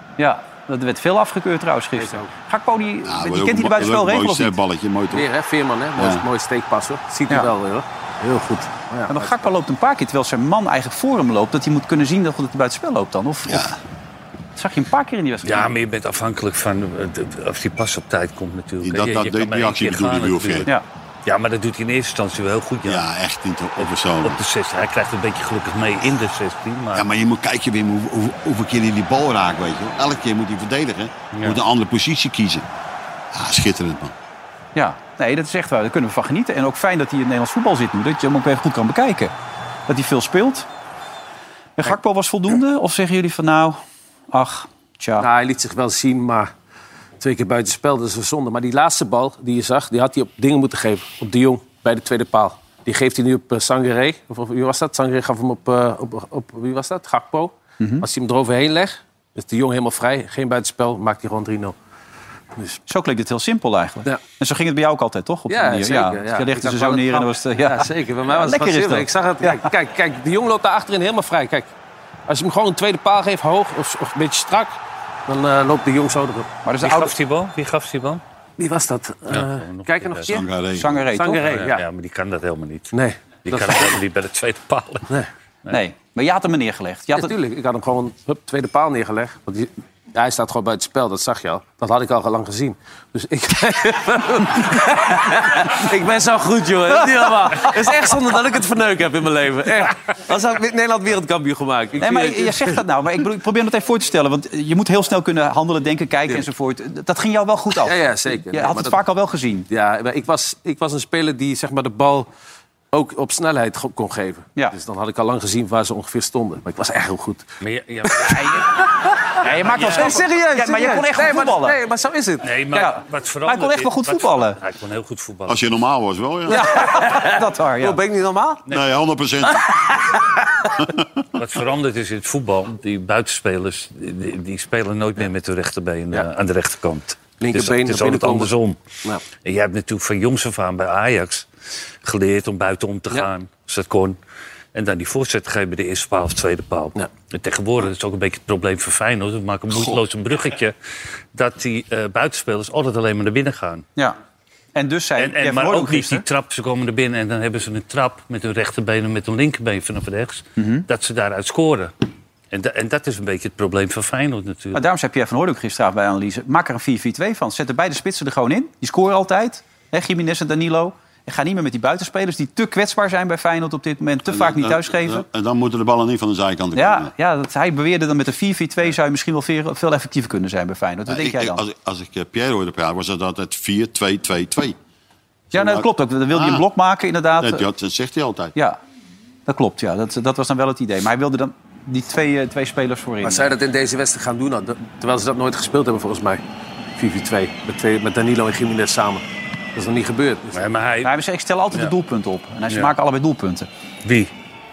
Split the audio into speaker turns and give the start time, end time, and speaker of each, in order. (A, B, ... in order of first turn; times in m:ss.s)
0:00.2-0:04.6 A
0:02.0-0:02.3 B
0:03.0-0:05.3 C
0:05.1-0:09.5 B
0:06.0-0:06.2 C
0:09.1-0:13.7 A
0:13.5-0:13.8 C
0:14.6-0:15.7 A
0:15.4-0:20.7 D
0:18.8-0:20.7 C
0:21.2-0:23.0 D
0:22.8-0:24.4 C
0:23.8-0:27.1 D
0:26.9-0:32.7 C
0:31.3-0:31.6 D
0:33.3-0:34.1 C
0:34.8-0:39.3 A
0:39.9-0:40.7 A
0:41.8-0:43.8 A
0:44.3-0:45.3 A
0:45.2-0:46.5 B
0:47.2-1:01.8 B
0:57.8-0:58.0 A
1:02.9-1:09.7 A
1:05.5-1:11.7 B
1:12.3-1:16.5 B
1:16.6-1:17.1 A
1:16.8-1:18.2 D
1:18.6-1:20.4 B
1:19.3-1:20.3 D
1:20.3-1:21.0 C
1:20.8-1:21.6 A
1:21.1-1:21.8 B
1:21.5-1:25.1 D
1:22.9-1:24.0 B
1:25.7-1:27.4 A
1:27.1-1:42.8 B
1:42.0-1:48.0 A
1:47.8-1:49.0 B
1:48.5-1:49.7 A
1:49.7-1:52.3 B
1:52.9-1:57.4 B
1:57.6-1:58.6 D
1:58.3-1:58.6 A
1:59.4-2:01.8 A
1:59.4-2:02.6 B
1:59.7-2:00.3 D
2:02.4-2:05.8 D
2:02.8-2:04.6 A
2:05.5-2:06.7 C
2:06.5-2:08.0 A
2:06.8-2:08.6 B
2:08.7-2:09.8 C
2:11.4-2:21.5 D
2:17.4-2:18.5 B
2:22.0-2:24.2 D
2:24.7-2:30.7 D
2:31.3-2:33.8 D
2:34.8-2:36.2 A
2:35.2-2:41.9 D
2:40.6-2:40.9 A
2:42.5-2:44.8 D
2:44.7-2:55.2 A
2:54.3-2:57.1 C
2:56.8-3:01.6 A
3:01.1-3:04.8 C
3:05.5-3:06.6 C
3:05.5-3:07.6 A
3:07.4-3:08.6 C
3:08.6-3:08.8 A
3:09.5-3:13.5 A
3:13.2-3:16.4 B
3:17.0-3:20.7 B
3:20.5-3:21.1 D
3:21.0-3:23.7 A
3:24.0-3:24.3 D